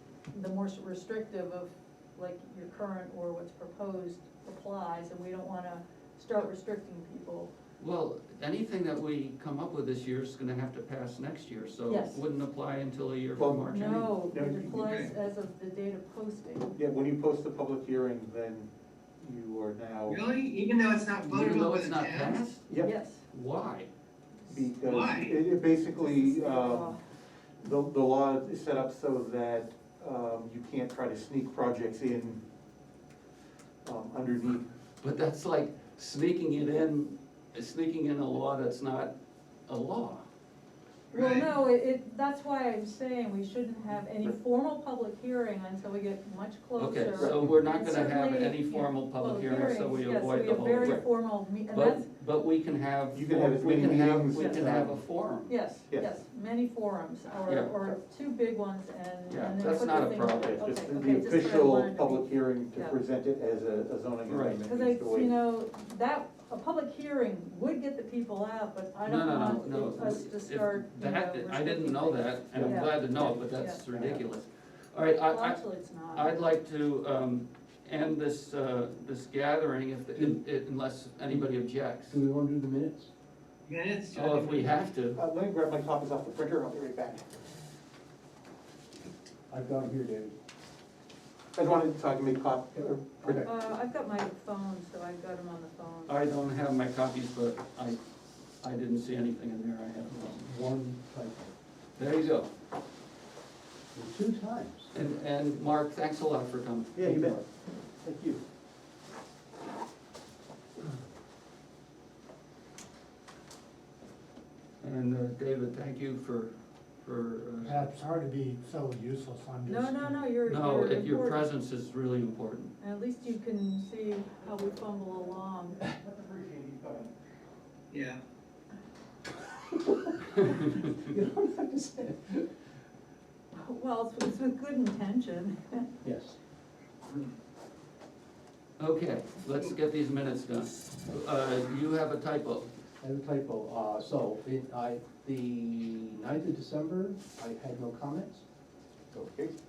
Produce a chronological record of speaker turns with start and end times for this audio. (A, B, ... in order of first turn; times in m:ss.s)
0:00.3-0:07.5 A
0:07.8-0:14.1 B
0:11.9-0:12.2 A
0:13.4-0:14.9 C
0:13.7-0:16.8 A
0:14.8-0:15.1 D
0:16.7-0:18.7 C
0:19.2-0:20.2 C
0:20.1-0:22.4 D
0:21.3-0:22.8 B
0:22.8-0:23.2 A
0:23.3-0:23.9 B
0:24.5-0:27.0 C
0:24.8-0:25.4 D
0:25.9-0:27.0 A
0:27.6-0:32.4 C
0:33.8-0:34.6 C
0:35.0-0:39.1 B
0:39.7-0:40.2 B
0:41.1-0:41.5 D
0:41.1-0:52.1 A
0:46.8-0:51.1 B
0:51.7-0:55.5 B
0:53.1-0:55.0 C
0:54.3-0:54.6 A
0:55.5-1:03.0 A
0:57.4-0:57.9 B
0:59.3-1:00.7 B
1:00.4-1:05.3 C
1:04.3-1:04.6 B
1:04.6-1:13.8 A
1:09.0-1:22.2 B
1:12.6-1:12.8 E
1:13.9-1:14.2 E
1:15.3-1:16.4 A
1:22.1-1:23.1 E
1:23.7-1:24.7 D
1:24.1-1:25.2 B
1:25.1-1:27.3 C
1:29.5-1:30.3 E
1:31.5-1:33.5 C
1:33.4-1:36.1 A
1:36.0-1:38.0 B
1:38.6-1:40.5 B
1:40.5-1:41.5 E
1:42.0-1:42.5 B
1:43.9-1:44.9 E
1:44.9-1:47.0 B
1:46.9-1:47.4 C
1:47.0-1:47.4 E
1:48.0-1:48.4 C
1:54.8-1:57.9 B
1:57.6-2:00.3 F
1:59.6-2:01.5 A
2:00.4-2:02.7 B
2:02.8-2:05.8 A
2:05.8-2:07.1 C
2:07.9-2:08.2 D
2:10.3-2:12.5 E
2:10.4-2:10.8 B
2:13.5-2:15.9 A
2:16.0-2:16.4 E
2:18.8-2:22.7 B
2:23.0-2:28.4 E
2:29.1-2:29.5 C